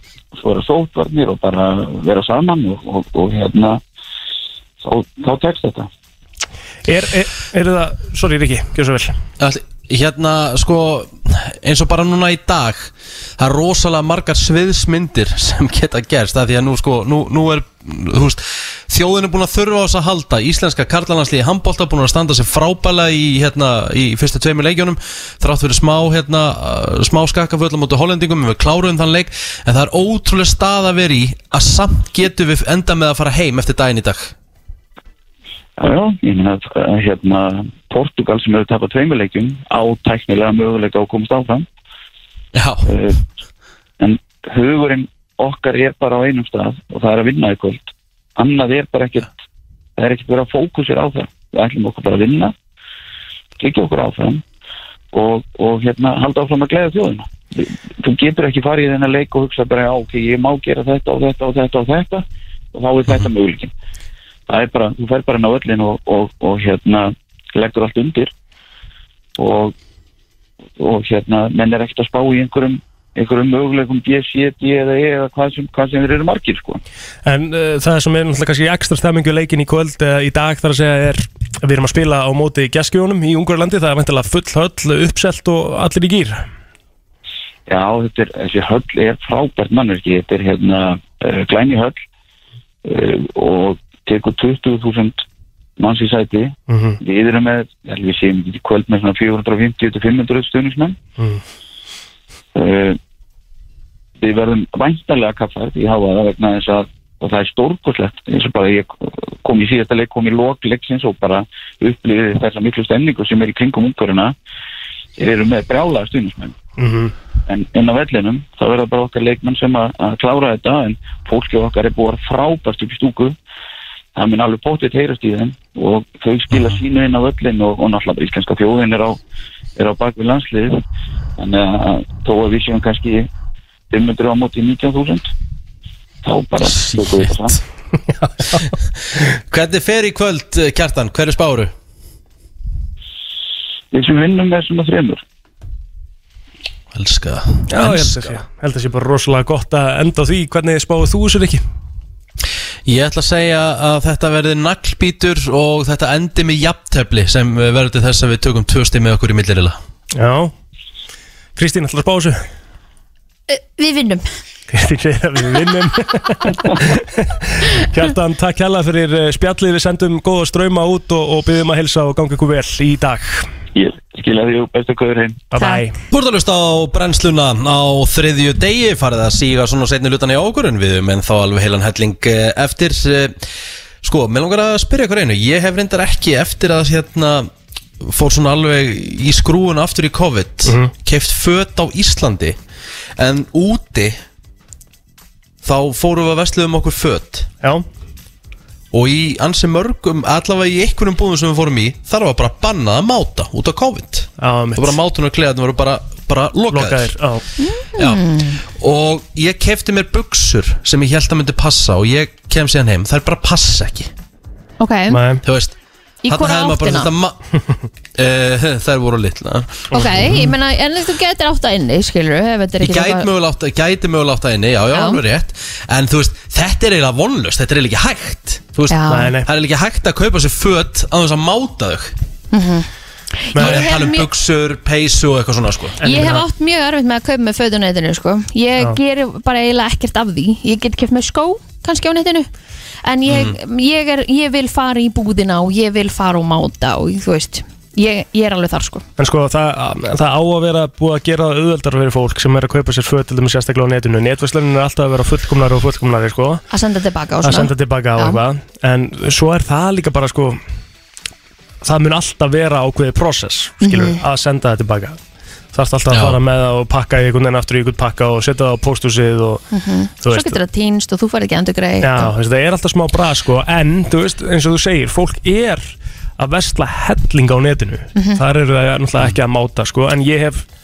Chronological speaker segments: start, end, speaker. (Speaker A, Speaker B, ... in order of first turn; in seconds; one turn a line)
Speaker A: 0.3-3.8
Speaker A: 4.8-5.9
Speaker B: 6.9-9.2
Speaker C: 9.4-34.3
Speaker A: 35.8-41.6
Speaker C: 42.5-42.9
Speaker A: 42.8-43.2
Speaker A: 44.0-49.3
Speaker A: 50.0-52.5
Speaker A: 53.6-54.4
Speaker A: 55.1-63.7
Speaker A: 64.5-68.3
Speaker A: 69.4-69.7
Speaker A: 70.8-76.8
Speaker B: 77.2-86.4
Speaker A: 87.7-92.0
Speaker A: 92.8-95.2
Speaker A: 95.8-101.0
Speaker B: 96.7-97.0
Speaker A: 102.5-103.0
Speaker A: 104.2-114.3
Speaker A: 115.2-116.5
Speaker B: 116.8-117.1
Speaker A: 117.5-123.3
Speaker A: 124.2-129.2
Speaker C: 126.5-126.8
Speaker A: 129.8-130.8
Speaker A: 131.4-133.3
Speaker A: 133.9-135.3
Speaker A: 136.2-137.6
Speaker C: 136.6-137.6
Speaker B: 138.1-138.7
Speaker C: 139.4-141.7
Speaker A: 143.9-145.2
Speaker C: 146.9-148.4
Speaker B: 147.7-151.6
Speaker C: 152.8-159.8
Speaker B: 160.1-160.5
Speaker B: 161.6-162.4
Speaker D: 163.5-164.3
Speaker B: 164.7-173.4
Speaker A: 173.7-175.4
Speaker B: 175.5-175.9
Speaker D: 175.6-175.8
Speaker C: 176.1-183.4
Speaker C: 184.0-192.6
Speaker B: 190.6-190.9
Speaker C: 193.2-194.2
Speaker C: 195.6-197.5
Speaker C: 198.9-207.1
Speaker B: 204.4-204.9
Speaker B: 206.7-207.4
Speaker D: 207.6-208.6
Speaker C: 207.9-214.1
Speaker D: 214.8-215.2
Speaker B: 215.1-215.4
Speaker C: 215.4-215.7
Speaker D: 216.2-217.1
Speaker C: 216.3-217.4
Speaker C: 218.1-220.0
Speaker B: 219.9-220.5
Speaker D: 219.9-223.3
Speaker C: 222.8-232.1
Speaker D: 224.9-225.2
Speaker D: 228.9-229.3
Speaker B: 229.1-229.5
Speaker D: 232.5-232.9
Speaker D: 233.4-234.2
Speaker B: 233.5-233.8
Speaker C: 233.6-236.0
Speaker B: 236.0-236.4
Speaker D: 236.0-242.5
Speaker D: 243.0-249.0
Speaker C: 243.3-243.6
Speaker B: 249.2-256.6
Speaker D: 256.7-258.4
Speaker B: 257.4-260.6
Speaker B: 261.8-265.2
Speaker D: 263.8-264.2
Speaker B: 265.7-269.6
Speaker C: 266.1-266.4
Speaker D: 269.7-272.3
Speaker B: 270.2-270.6
Speaker B: 272.0-280.6